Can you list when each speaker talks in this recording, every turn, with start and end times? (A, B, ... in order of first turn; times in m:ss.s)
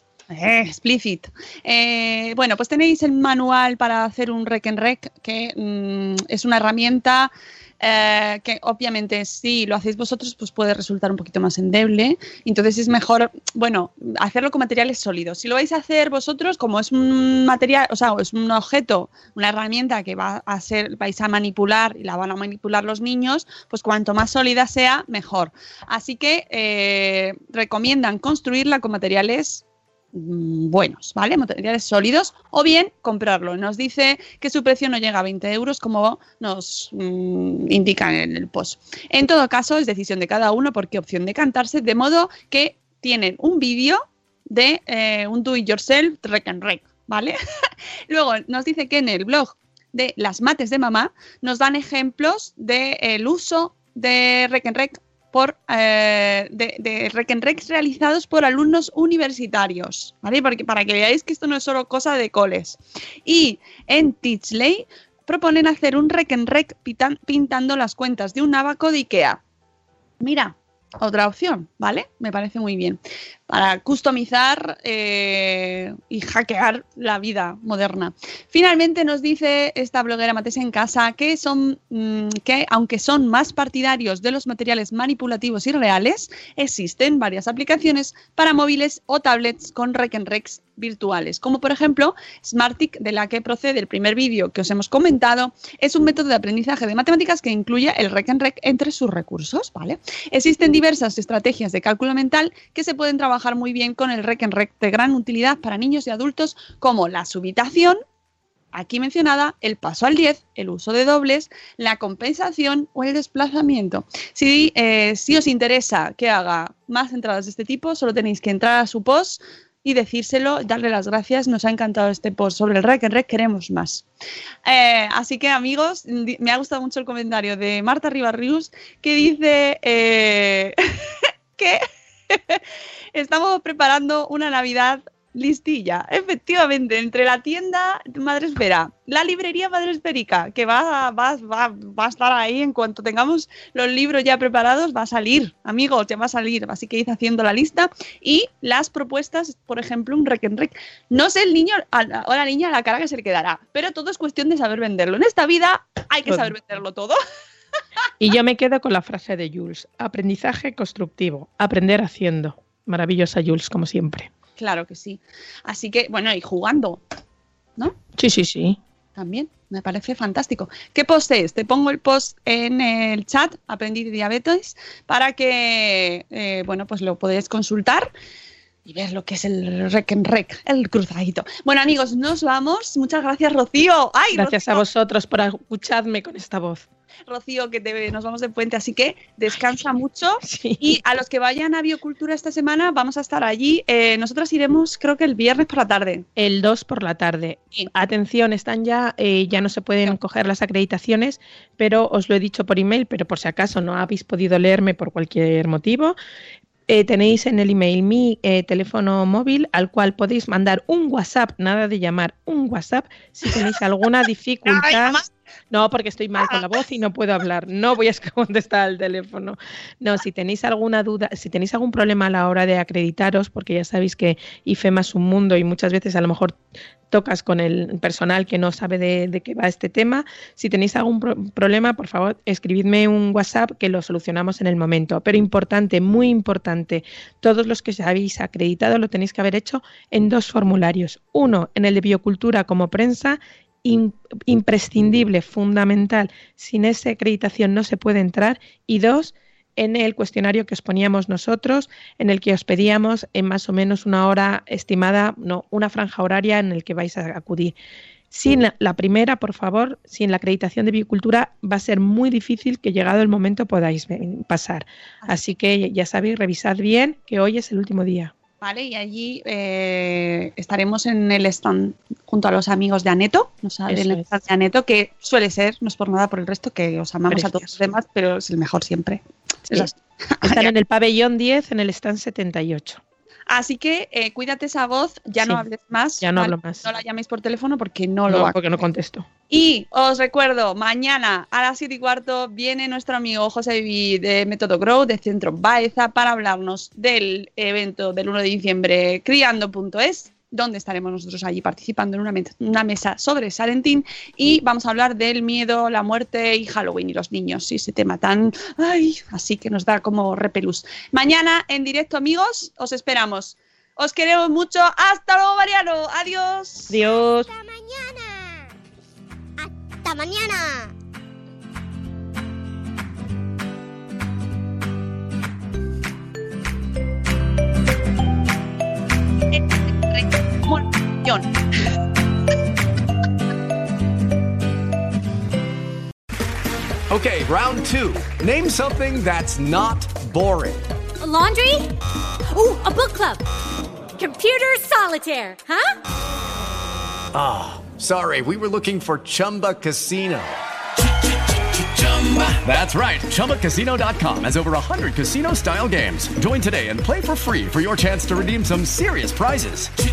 0:00.3-0:29.6 A
0:30.1-0:47.4 A
0:48.1-1:09.4 A
1:10.2-1:48.0 A
1:48.7-2:04.0 A
2:04.6-2:10.8 A
2:11.6-2:12.6 A
2:13.1-2:37.2 A
2:36.2-2:36.5 B
2:38.2-2:44.3 B
2:44.6-2:47.0 A
2:48.2-2:48.8 B
2:49.2-2:58.1 A
2:58.8-3:04.8 A
3:04.3-3:06.8 B
3:07.3-3:16.2 A
3:10.4-3:11.0 B
3:16.4-3:26.2 B
3:26.9-4:17.8 B
3:34.7-3:35.2 A
4:18.3-4:28.3 B
4:28.6-4:40.7 A
4:33.9-4:34.2 B
4:37.3-4:37.8 B
4:40.4-4:43.0 B
4:43.5-4:48.6 A
4:46.2-4:46.9 B
4:48.3-4:49.3 B
4:49.5-5:17.0 A
5:16.9-5:17.5 B
5:17.0-5:18.7 C
5:19.6-5:20.9 C
5:30.1-5:31.5 A
5:37.1-5:40.8 D
5:41.2-5:41.9 E
5:42.5-5:43.4 E
5:44.2-5:46.0 E
5:47.3-5:50.4 D
5:52.0-5:59.9 D